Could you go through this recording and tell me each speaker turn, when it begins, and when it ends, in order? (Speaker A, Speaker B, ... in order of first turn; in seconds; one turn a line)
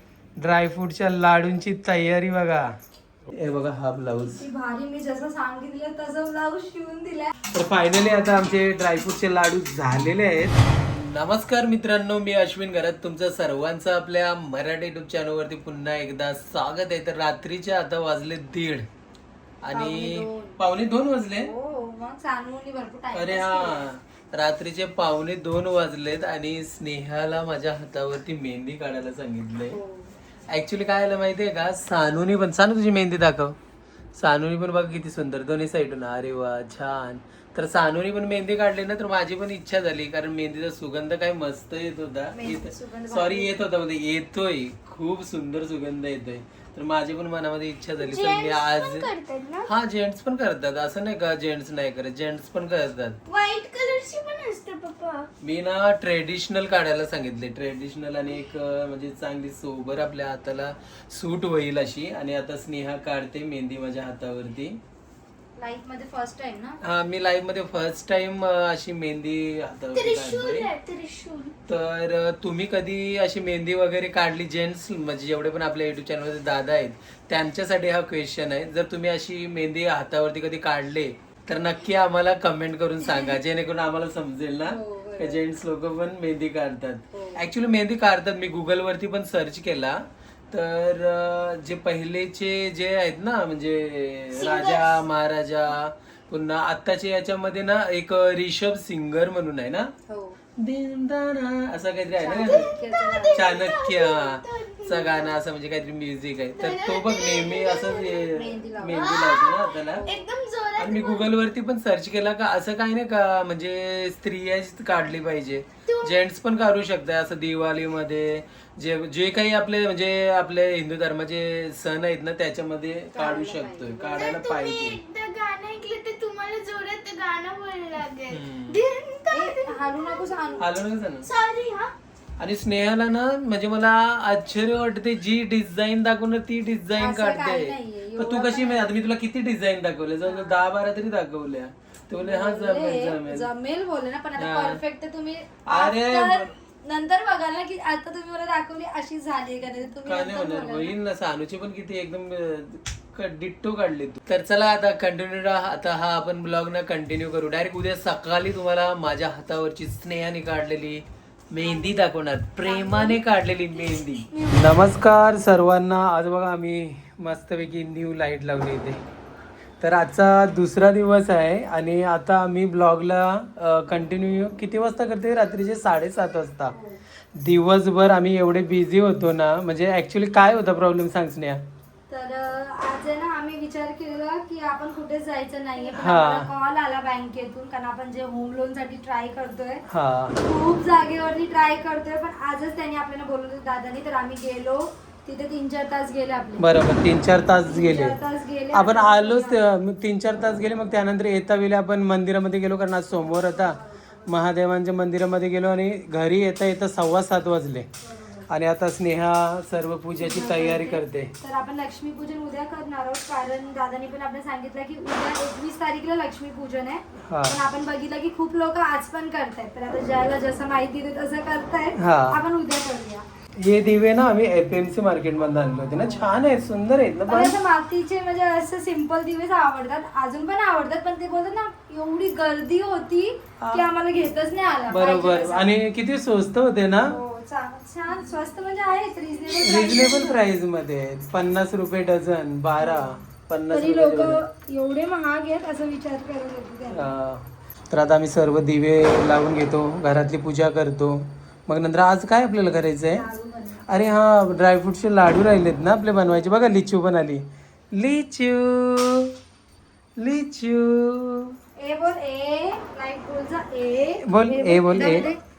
Speaker A: 0.4-2.7
Speaker A: 3.3-4.5
Speaker B: 4.3-7.3
Speaker A: 7.5-18.9
Speaker A: 19.6-21.5
Speaker B: 19.7-20.6
Speaker B: 21.3-23.9
Speaker A: 23.1-29.8
Speaker B: 29.7-30.1
Speaker A: 30.5-33.6
Speaker A: 34.1-49.1
Speaker B: 42.4-43.6
Speaker C: 48.0-49.7
Speaker A: 49.6-53.2
Speaker C: 53.3-55.3
Speaker A: 55.4-64.8
Speaker B: 65.6-66.8
Speaker A: 66.8-70.7
Speaker C: 69.9-71.5
Speaker A: 71.7-99.9
Speaker B: 83.0-83.4
Speaker B: 84.7-85.4
Speaker B: 87.1-87.4
Speaker C: 94.3-95.0
Speaker B: 100.1-100.4
Speaker A: 100.6-102.8
Speaker B: 102.2-103.5
Speaker C: 102.4-105.3
Speaker A: 103.3-110.1
Speaker C: 106.6-108.3
Speaker B: 108.3-109.2
Speaker C: 108.9-111.3
Speaker B: 109.7-110.3
Speaker A: 110.8-125.0
Speaker C: 115.9-116.1
Speaker B: 123.1-124.2
Speaker C: 124.1-130.5
Speaker A: 128.3-128.8
Speaker B: 129.3-130.7
Speaker A: 130.6-131.3
Speaker C: 131.2-132.0
Speaker A: 132.4-143.5
Speaker B: 137.0-138.9
Speaker B: 140.2-140.6
Speaker B: 142.2-150.9
Speaker A: 144.4-144.8
Speaker A: 145.7-146.5
Speaker A: 150.1-169.0
Speaker B: 161.6-162.1
Speaker B: 162.6-164.8
Speaker A: 169.8-176.8
Speaker B: 176.7-177.0
Speaker A: 177.3-181.6
Speaker B: 182.1-189.8
Speaker A: 185.9-186.5
Speaker A: 189.9-190.4
Speaker B: 190.4-196.8
Speaker A: 196.6-198.2
Speaker B: 197.6-199.6
Speaker A: 198.7-207.9
Speaker B: 203.2-204.3
Speaker B: 208.0-208.5
Speaker A: 208.5-211.3
Speaker B: 210.1-223.2
Speaker A: 217.2-217.6
Speaker A: 222.0-222.4
Speaker A: 223.6-227.6
Speaker B: 227.3-235.7
Speaker A: 233.6-233.9
Speaker A: 234.9-237.2
Speaker B: 237.1-240.5
Speaker A: 239.6-244.4
Speaker B: 242.8-243.1
Speaker B: 243.7-247.1
Speaker A: 246.9-253.2
Speaker B: 253.1-253.9
Speaker A: 253.9-259.4
Speaker A: 260.2-261.5
Speaker B: 261.8-265.4
Speaker A: 264.2-265.3